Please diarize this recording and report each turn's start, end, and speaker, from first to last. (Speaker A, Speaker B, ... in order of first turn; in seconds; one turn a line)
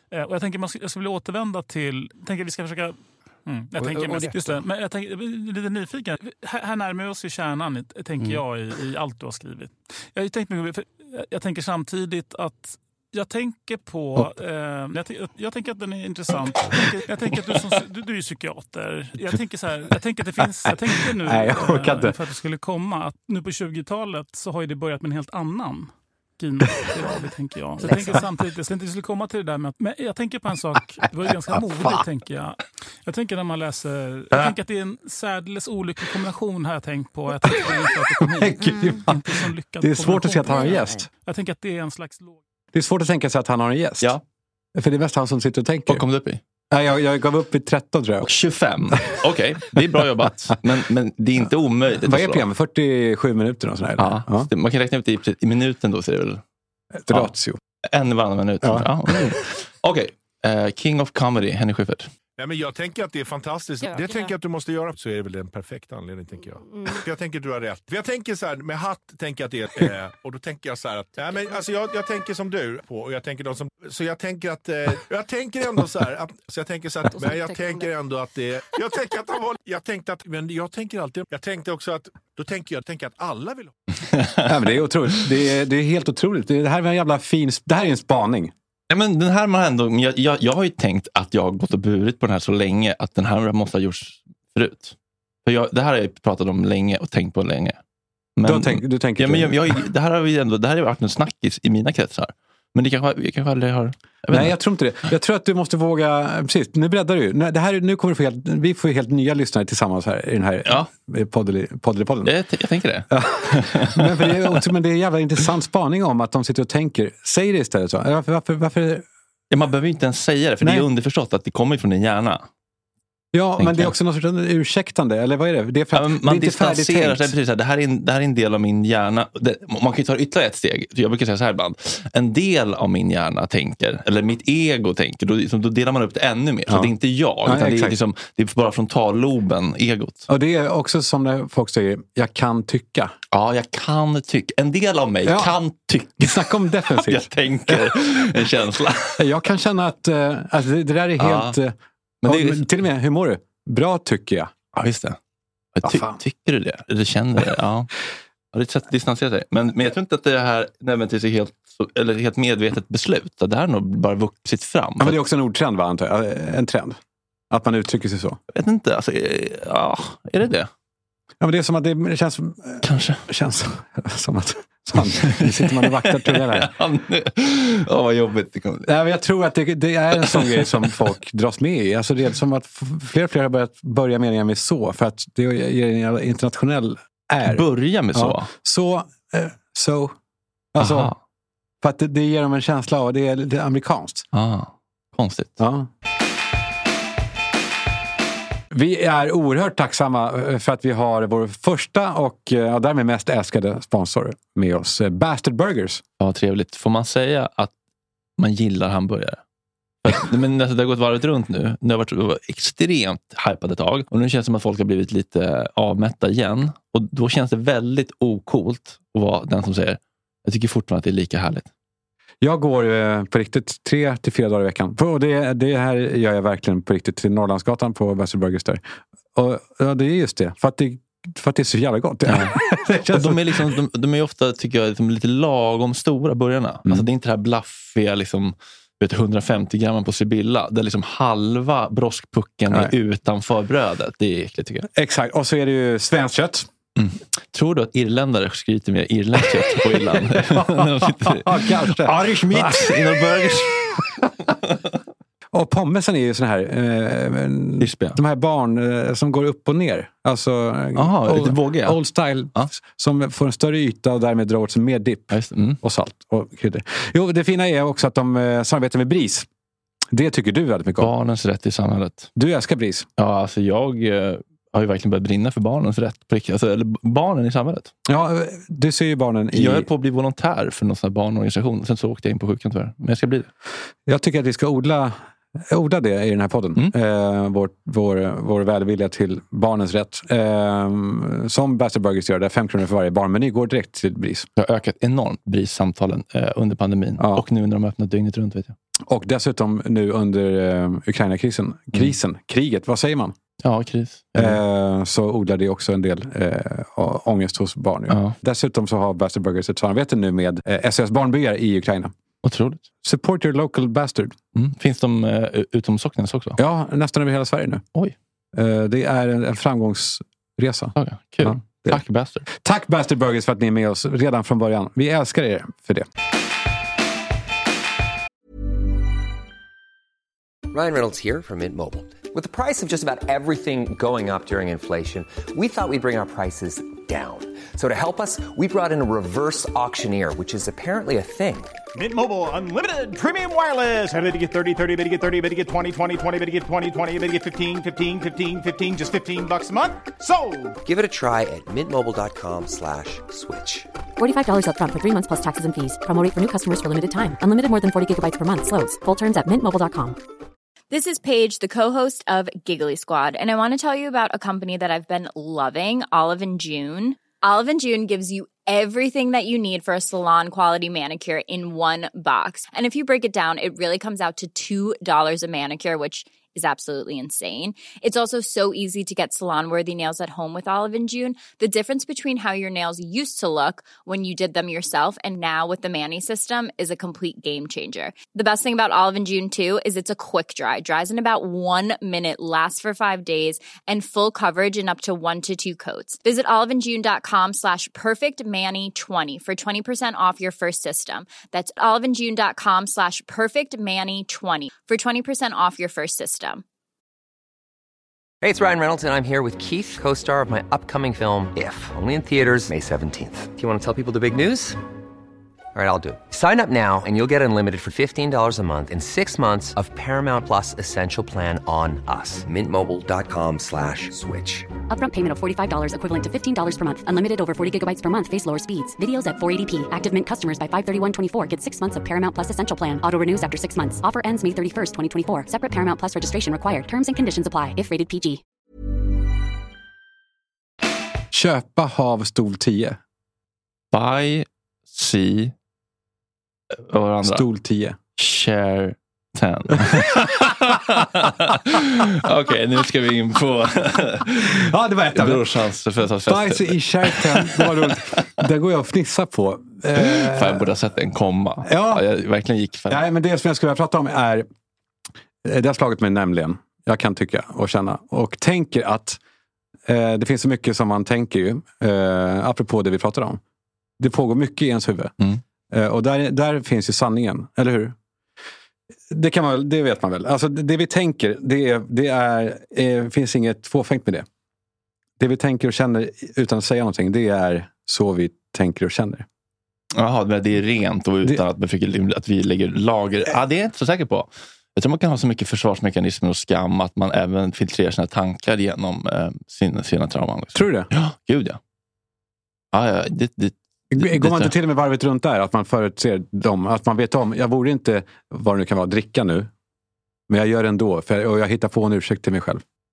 Speaker A: 0.1-42.4
Speaker B: 3.8-4.5
Speaker B: 20.6-22.1
Speaker B: 27.8-28.2
Speaker B: 38.2-41.1
Speaker B: 42.7-44.1
Speaker B: 44.8-46.0
Speaker C: 45.9-46.4
Speaker B: 46.7-48.3
Speaker C: 48.2-52.4
Speaker B: 52.0-54.5
Speaker C: 54.0-56.4
Speaker B: 57.0-57.6
Speaker C: 57.9-62.1
Speaker B: 58.6-59.4
Speaker D: 62.4-83.7
Speaker C: 84.1-84.5
Speaker B: 84.4-88.5
Speaker C: 88.9-97.8
Speaker C: 98.4-104.5
Speaker B: 98.4-99.7
Speaker B: 104.3-112.3
Speaker C: 112.2-114.6
Speaker B: 113.1-119.0
Speaker C: 119.5-122.5
Speaker B: 123.3-127.3
Speaker C: 123.6-123.9
Speaker C: 125.9-140.2
Speaker B: 136.7-136.9
Speaker B: 137.4-138.0
Speaker B: 140.3-143.1
Speaker C: 143.3-149.2
Speaker B: 145.2-145.6
Speaker B: 146.2-148.4
Speaker B: 149.2-151.7
Speaker C: 151.2-151.6
Speaker C: 152.2-152.7
Speaker B: 152.2-154.5
Speaker C: 154.7-155.2
Speaker C: 155.7-157.9
Speaker B: 155.8-156.2
Speaker C: 158.5-165.2
Speaker B: 165.0-167.0
Speaker B: 167.5-168.4
Speaker C: 168.5-170.7
Speaker B: 171.4-176.7
Speaker C: 172.8-173.2
Speaker C: 175.2-178.9
Speaker B: 178.8-190.1
Speaker C: 180.2-181.0
Speaker C: 187.4-188.5
Speaker B: 190.7-191.1
Speaker C: 190.8-191.2
Speaker B: 191.8-194.2
Speaker C: 194.3-195.6
Speaker B: 195.6-195.9
Speaker B: 198.7-206.0
Speaker C: 206.2-207.7
Speaker C: 208.4-209.4
Speaker C: 210.0-221.7
Speaker B: 222.4-228.8
Speaker B: 229.3-233.6
Speaker C: 232.3-244.9
Speaker B: 244.9-246.7
Speaker C: 247.0-254.2
Speaker B: 249.7-253.2
Speaker B: 255.5-269.5
Speaker C: 257.8-258.2
Speaker C: 260.9-262.0
Speaker C: 265.3-265.8
Speaker B: 270.1-271.1
Speaker C: 271.0-272.3
Speaker B: 272.4-273.1
Speaker C: 273.2-277.9
Speaker B: 278.1-279.9
Speaker C: 279.5-283.5
Speaker B: 284.1-294.5
Speaker C: 294.6-298.7
Speaker B: 297.2-297.4
Speaker B: 299.1-303.3
Speaker C: 303.6-304.6
Speaker B: 304.3-312.1
Speaker C: 308.1-308.4
Speaker C: 312.4-312.8
Speaker B: 313.0-314.4
Speaker C: 314.5-316.6
Speaker B: 316.6-317.8
Speaker B: 318.5-326.1
Speaker C: 320.9-322.4
Speaker E: 330.7-341.7
Speaker F: 341.9-350.8
Speaker E: 350.8-353.9
Speaker G: 354.2-360.2
Speaker H: 360.9-406.6
Speaker E: 408.4-414.8
Speaker E: 415.7-424.7
Speaker G: 424.9-438.4
Speaker B: 441.3-443.0
Speaker C: 443.9-445.5
Speaker C: 446.7-447.4
Speaker B: 447.2-448.0
Speaker C: 448.2-458.0
Speaker B: 454.5-455.5
Speaker B: 456.2-460.7
Speaker C: 459.9-463.0
Speaker B: 461.6-462.0
Speaker B: 462.9-464.5
Speaker B: 465.4-469.2
Speaker B: 469.9-473.4
Speaker B: 474.0-475.1
Speaker B: 475.7-477.9
Speaker B: 479.1-484.2
Speaker B: 485.2-489.2
Speaker C: 489.9-501.6
Speaker B: 500.5-500.9
Speaker C: 502.7-504.5
Speaker B: 503.9-509.5
Speaker B: 510.3-512.6